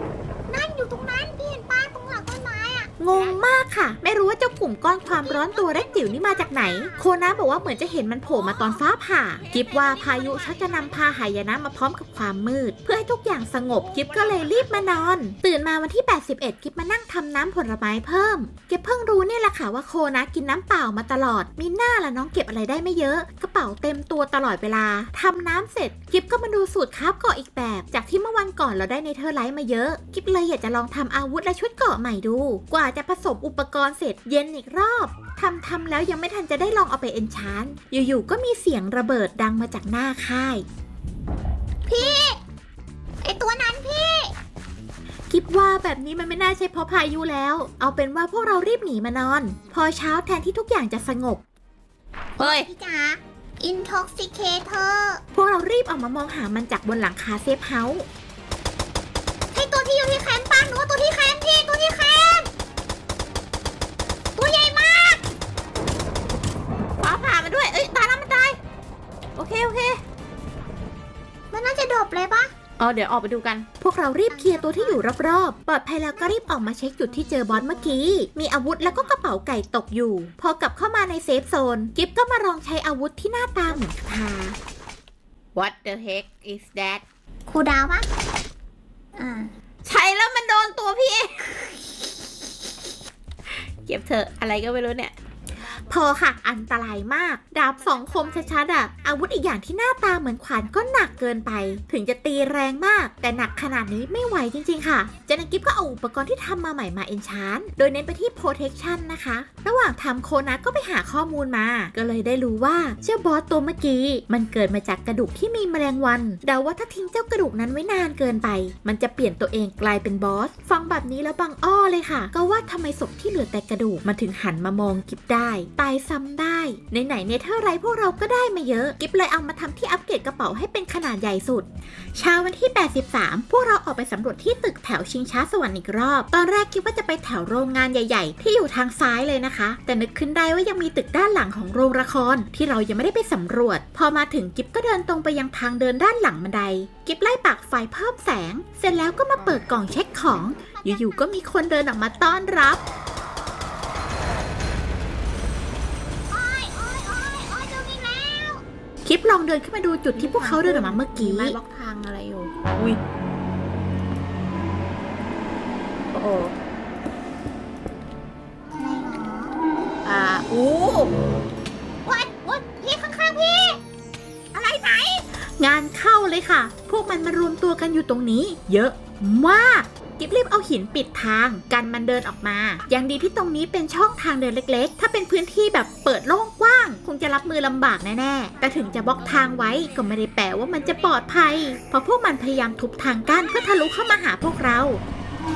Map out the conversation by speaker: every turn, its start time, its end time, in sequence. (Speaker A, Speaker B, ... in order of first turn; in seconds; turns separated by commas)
Speaker A: 0.5-2.9, Speaker B: 3.0-40.6, Speaker A: 5.0-7.1, Speaker C: 8.3-10.9, Speaker C: 13.8-14.7, Speaker A: 41.9-42.4, Speaker A: 43.2-44.3, Speaker B: 45.3-51.4, Speaker C: 52.4-52.7, Speaker A: 52.4-55.2, Speaker B: 55.4-58.1, Speaker A: 59.5-62.5, Speaker A: 64.3-65.2, Speaker C: 67.0-68.6, Speaker C: 69.3-70.0, Speaker A: 71.5-72.5, Speaker C: 72.8-73.7, Speaker B: 73.8-84.6, Speaker A: 74.3-75.0, Speaker C: 85.5-87.0, Speaker A: 87.5-88.1, Speaker A: 89.2-89.5, Speaker C: 89.8-91.5, Speaker C: 93.5-95.1, Speaker B: 95.9-152.8, Speaker C: 97.8-98.5, Speaker A: 150.3-151.5, Speaker A: 156.3-158.6, Speaker B: 159.0-161.5, Speaker C: 160.1-163.0, Speaker C: 166.1-166.5, Speaker A: 168.7-169.6, Speaker C: 170.0-171.1, Speaker A: 172.0-173.8, Speaker C: 174.5-175.2, Speaker B: 175.6-195.0, Speaker C: 189.4-189.8